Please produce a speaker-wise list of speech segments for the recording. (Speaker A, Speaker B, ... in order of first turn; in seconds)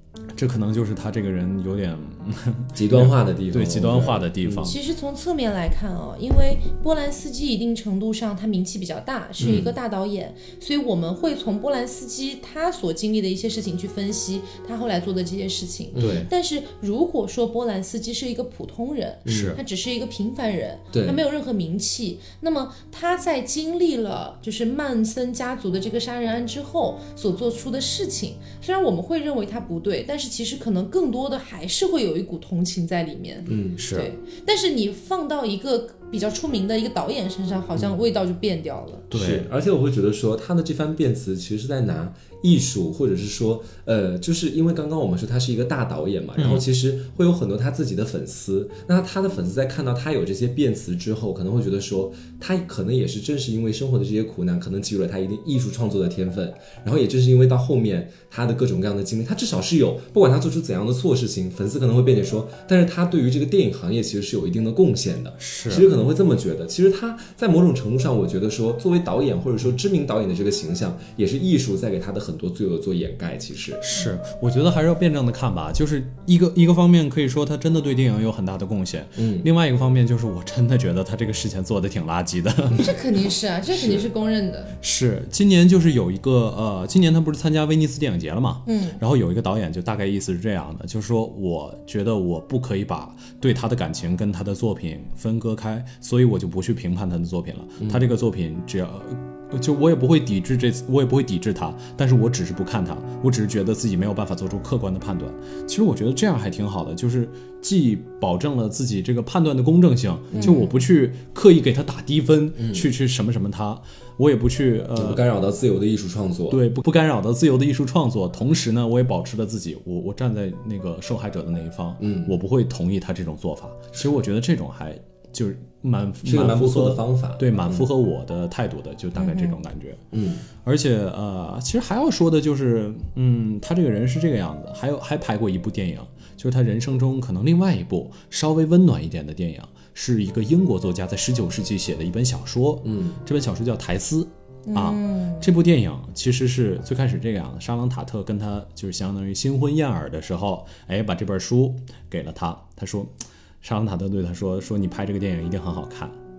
Speaker A: 0.3-4.8, 16.0-16.2, 19.3-19.6, 33.8-34.1, 39.1-39.5, 46.4-46.6, 65.4-65.9, 73.8-82.9, 84.8-115.2, 116.5-130.0, 130.6-156.2
Speaker B: 2.8-4.7, 9.4-9.7, 15.9-16.3, 19.2-19.6, 20.9-21.2, 33.5-33.8, 39.1-73.8, 79.2-79.5, 83.7-84.1, 110.3-110.6, 112.6-112.9, 115.0-116.6, 122.0-122.3, 126.2-127.9, 130.1-130.4, 142.8-143.2
Speaker C: 4.6-39.1, 82.8-84.8, 88.7-89.0, 110.3-110.8, 129.2-129.6, 144.7-145.5